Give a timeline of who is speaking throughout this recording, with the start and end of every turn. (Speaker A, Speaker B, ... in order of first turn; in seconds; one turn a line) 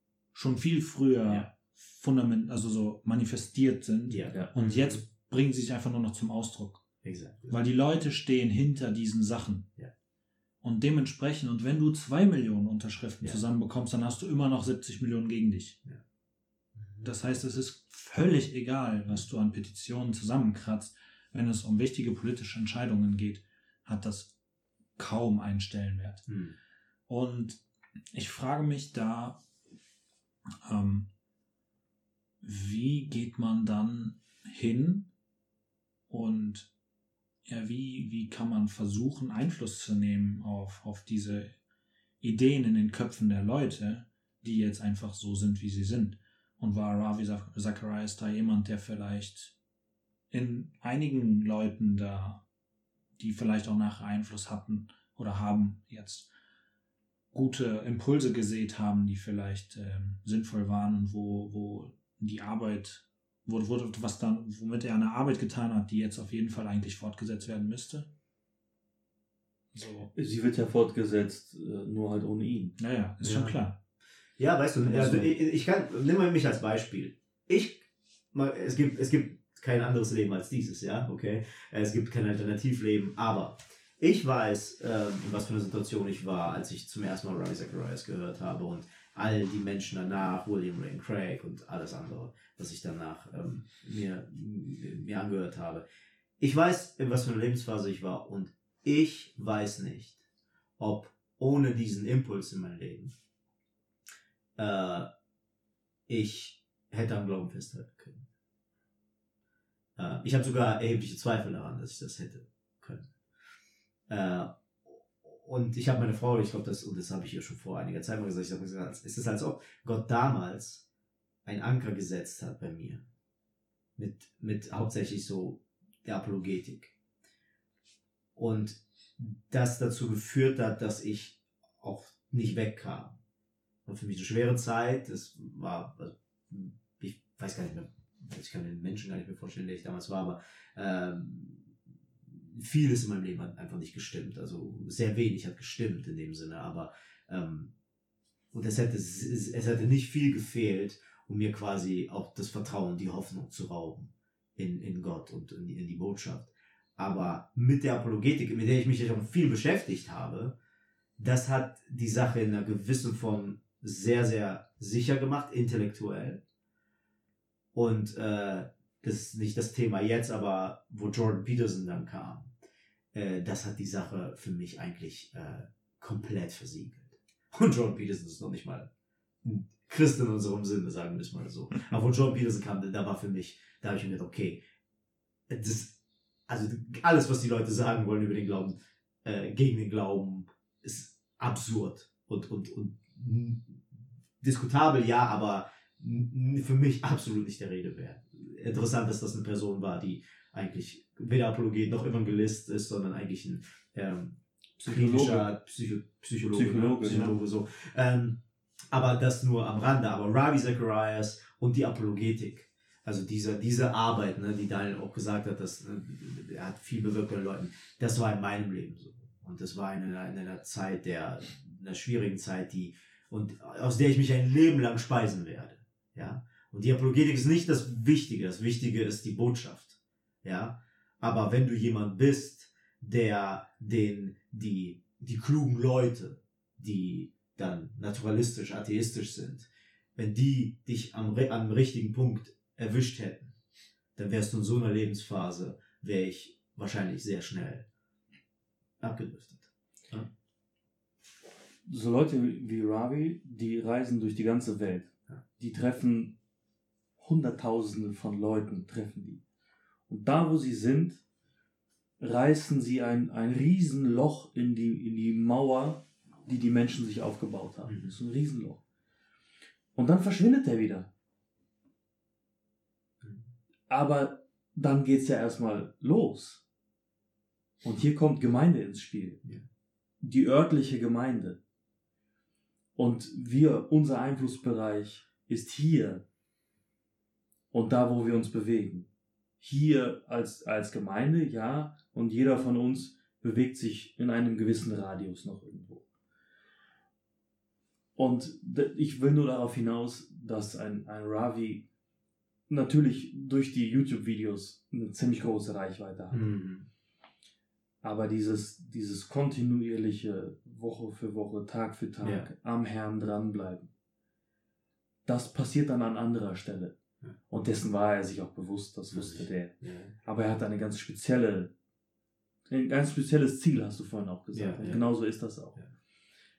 Speaker A: 0.3-6.8
Speaker B: 4.1-5.0
Speaker B: 7.0-7.6
Speaker A: 7.5-9.7
Speaker A: 10.6-15.8
Speaker A: 17.0-24.3
Speaker A: 25.0-26.3
Speaker B: 26.3-26.6
Speaker A: 27.1-27.6
Speaker A: 28.1-29.4
Speaker A: 30.6-31.1
Speaker A: 32.4-35.1
Speaker A: 36.1-36.7
Speaker A: 37.5-41.5
Speaker A: 42.2-49.5
Speaker A: 50.3-52.4
Speaker A: 53.2-56.3
Speaker A: 57.3-68.1
Speaker A: 69.7-70.1
Speaker C: 70.2-72.8
Speaker A: 72.8-73.8
Speaker B: 73.2-73.5
Speaker B: 74.4-95.8
Speaker C: 74.9-75.3
Speaker B: 96.4-100.2
Speaker B: 100.8-103.1
Speaker B: 104.6-105.1
Speaker B: 106.1-108.2
Speaker B: 110.0-113.1
Speaker B: 114.1-120.8
Speaker B: 121.5-123.0
Speaker B: 124.0-126.9
Speaker B: 128.3-133.2
Speaker B: 133.9-141.7
Speaker B: 142.3-147.7
Speaker B: 148.5-160.6
Speaker B: 161.2-166.4
Speaker B: 167.7-172.5
Speaker B: 173.1-178.9
Speaker B: 179.4-184.6
Speaker B: 185.5-208.4
Speaker C: 204.9-205.5
Speaker C: 206.5-207.4
Speaker B: 208.9-243.5
Speaker B: 244.2-247.8
Speaker B: 249.0-250.3
Speaker C: 251.9-256.4
Speaker C: 257.2-259.4
Speaker C: 260.1-261.2
Speaker C: 262.2-268.8
Speaker B: 267.9-268.1
Speaker C: 269.9-271.1
Speaker C: 273.9-276.6
Speaker C: 277.8-279.4
Speaker C: 280.2-281.6
Speaker C: 283.0-286.2
Speaker C: 287.7-289.1
Speaker C: 289.6-296.1
Speaker C: 298.2-301.9
Speaker C: 302.7-306.5
Speaker B: 306.3-306.9
Speaker C: 308.0-313.9
Speaker B: 312.2-312.5
Speaker C: 315.3-317.0
Speaker C: 317.5-321.7
Speaker B: 319.1-320.1
Speaker C: 322.7-325.8
Speaker B: 324.5-325.1